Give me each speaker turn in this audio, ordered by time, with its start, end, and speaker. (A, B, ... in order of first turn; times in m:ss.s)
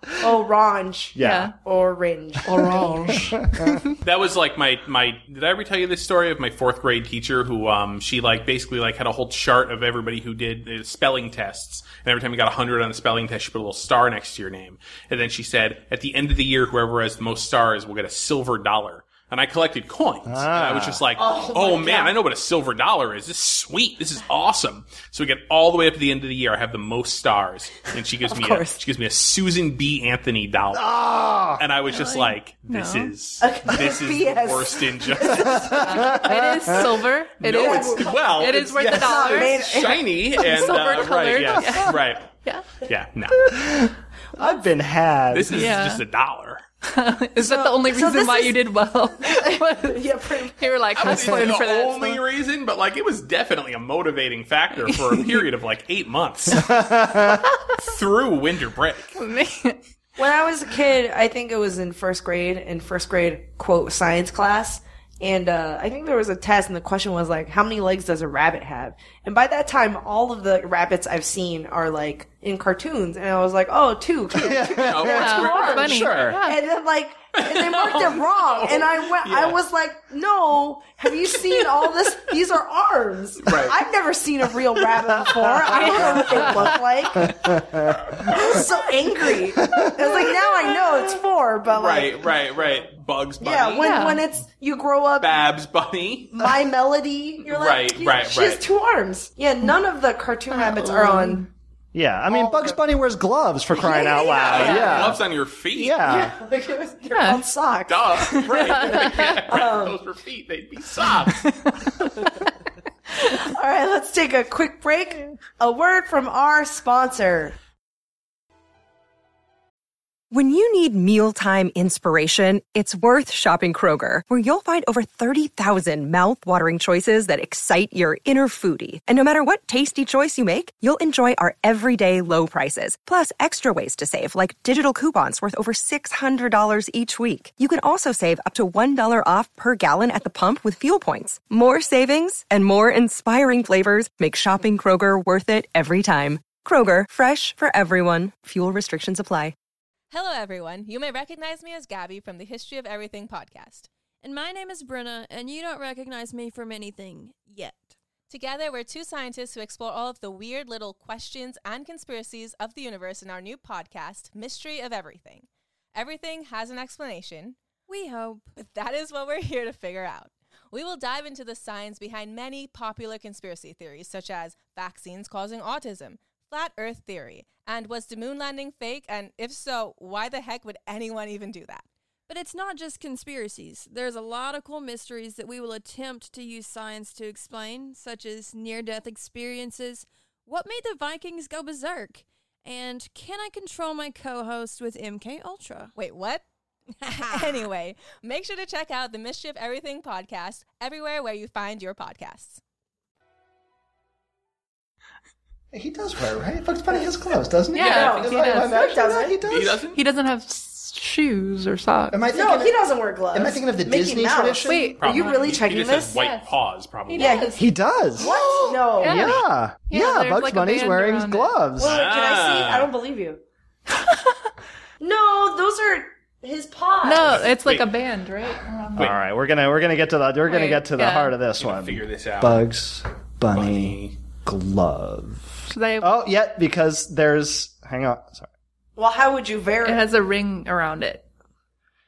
0:00.2-0:03.3 A
0:01.2-0:01.5 B
0:01.2-0:01.5 C
0:02.5-0:03.9 C
0:02.5-0:03.8 B
0:04.0-0:31.0 D
0:20.3-0:21.0 B
0:21.2-0:22.2 A
0:28.3-0:28.8 A
0:30.7-0:31.6 B
0:31.5-0:36.9 D
0:31.9-0:33.1 C
0:33.4-0:36.1 A
0:35.4-0:36.9 B
0:35.8-0:39.7 C
0:37.4-0:42.3 D
0:37.5-0:40.0 A
0:40.4-0:42.8 C
0:41.6-0:41.9 B
0:42.8-0:43.5 D
0:43.4-0:45.8 B
0:45.3-0:46.6 D
0:45.5-0:46.0 C
0:46.8-0:50.0 C
0:47.4-0:48.6 A
0:49.2-0:51.2 A
0:50.6-0:52.2 C
0:51.0-0:56.9 D
0:54.9-0:55.4 C
0:56.6-0:57.4 B
0:57.8-0:59.1 D
0:59.2-0:59.8 C
1:00.2-1:27.6 A
1:14.3-1:16.4 B
1:14.8-1:16.3 D
1:15.1-1:16.6 C
1:17.4-1:19.6 D
1:23.4-1:23.8 D
1:25.2-1:26.6 B
1:25.8-1:26.7 C
1:27.2-1:28.6 B
1:28.3-1:32.8 A
1:29.6-1:30.5 B
1:31.7-1:34.0 D
1:33.4-1:35.3 A
1:33.8-1:34.2 C
1:35.2-1:36.4 D
1:36.3-1:41.4 A
1:37.4-1:38.6 D
1:40.5-1:41.5 C
1:41.9-1:45.2 B
1:42.3-1:42.8 A
1:43.7-1:45.1 A
1:44.4-1:46.0 D
1:45.7-1:46.3 B
1:46.0-1:50.0 A
1:47.1-1:47.4 C
1:47.9-1:51.5 D
1:48.3-1:49.4 C
1:53.2-1:57.6 A
2:00.3-2:29.6 E
2:30.1-2:33.9 F
2:34.2-2:37.9 G
2:38.3-2:47.6 F
2:47.9-2:48.6 G
2:48.6-3:01.9 F
3:02.3-3:15.9 G
3:16.0-3:16.4 F
3:17.0-3:22.6 F
3:25.7-3:29.8 B
3:27.7-3:28.8 C
3:27.8-3:29.4 A
3:29.5-3:30.0 D
3:30.0-3:32.2 C
3:32.1-3:32.8 B
3:32.3-3:36.2 A
3:33.3-3:35.0 B
3:34.7-3:35.6 C
3:35.0-3:37.4 D
3:36.1-3:36.4 C
3:37.1-3:37.6 C
3:37.2-3:37.6 A
3:37.6-3:42.0 B
3:38.2-3:39.3 A
3:39.0-3:41.5 C
3:41.8-3:43.4 A
3:41.8-3:42.9 D
3:45.0-3:47.4 A
3:47.0-3:49.1 C
3:47.3-3:47.9 D
3:49.0-3:58.5 B
3:50.5-3:51.3 C
3:51.6-3:52.6 D
3:53.5-3:54.2 D
3:55.7-3:56.1 C
3:59.0-4:00.0 A
3:59.8-4:01.2 C